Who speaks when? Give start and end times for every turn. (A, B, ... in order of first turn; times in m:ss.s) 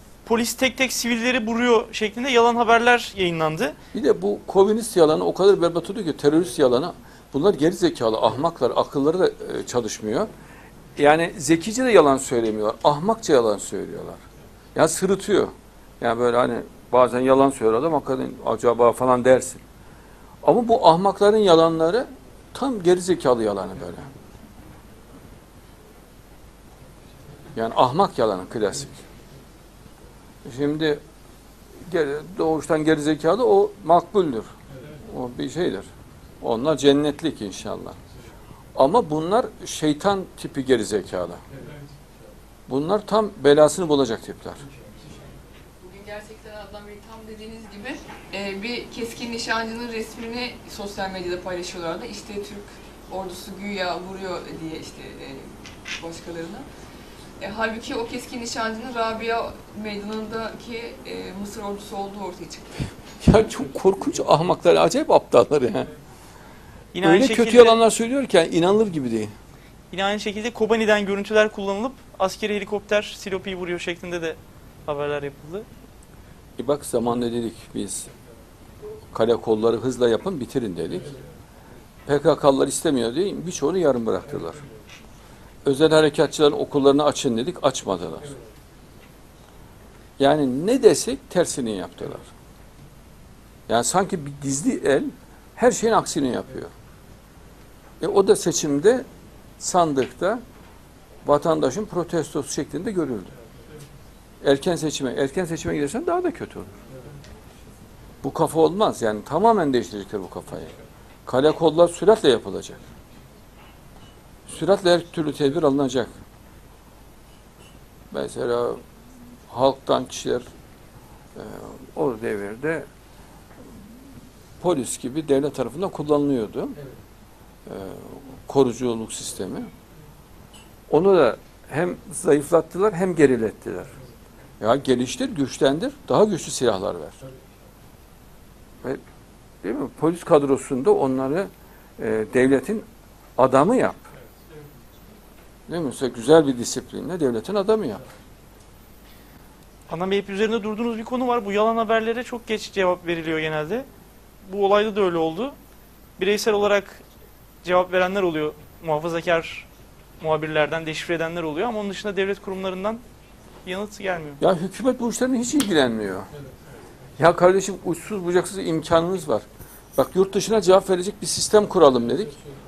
0:00.2-0:03.8 A
0:03.9-0:10.3 B
0:11.0-0:14.2 B
0:14.8-0:19.6 B
0:20.4-0:24.1 B
0:27.6-0:29.0 B
0:30.4-0:31.0 B
0:31.9-0:35.9 B
0:36.4-0:38.0 B
0:38.8-0:41.4 B
0:42.7-0:44.6 B
0:45.8-0:56.7 C
0:57.4-1:03.0 C
1:03.2-1:05.9 B
1:06.9-1:07.8 A
1:07.0-1:09.3 B
1:09.9-1:15.7 A
1:16.6-1:18.1 B
1:19.1-1:21.2 B
1:22.1-1:24.7 B
1:25.6-1:28.4 B
1:30.2-1:32.3 B
1:33.7-1:36.7 B
1:38.0-1:39.0 B
1:39.6-1:40.4 B
1:41.2-1:43.3 B
1:44.4-1:46.7 B
1:48.2-1:52.8 B
1:54.5-1:56.1 B
1:58.1-1:58.8 B
1:59.5-2:00.5 B
2:01.4-2:02.9 B
2:04.6-2:06.8 B
2:07.7-2:09.7 B
2:10.9-2:14.0 B
2:14.6-2:17.2 B
2:19.6-2:22.8 B
2:23.4-2:24.0 B
2:25.7-2:28.0 B
2:29.9-2:33.9 A
2:34.4-2:35.6 A
2:36.2-2:37.0 A
2:37.6-2:39.7 A
2:40.2-2:43.0 A
2:43.6-2:44.4 A
2:44.4-2:46.3 B
2:47.2-2:49.4 B
2:50.0-2:52.4 B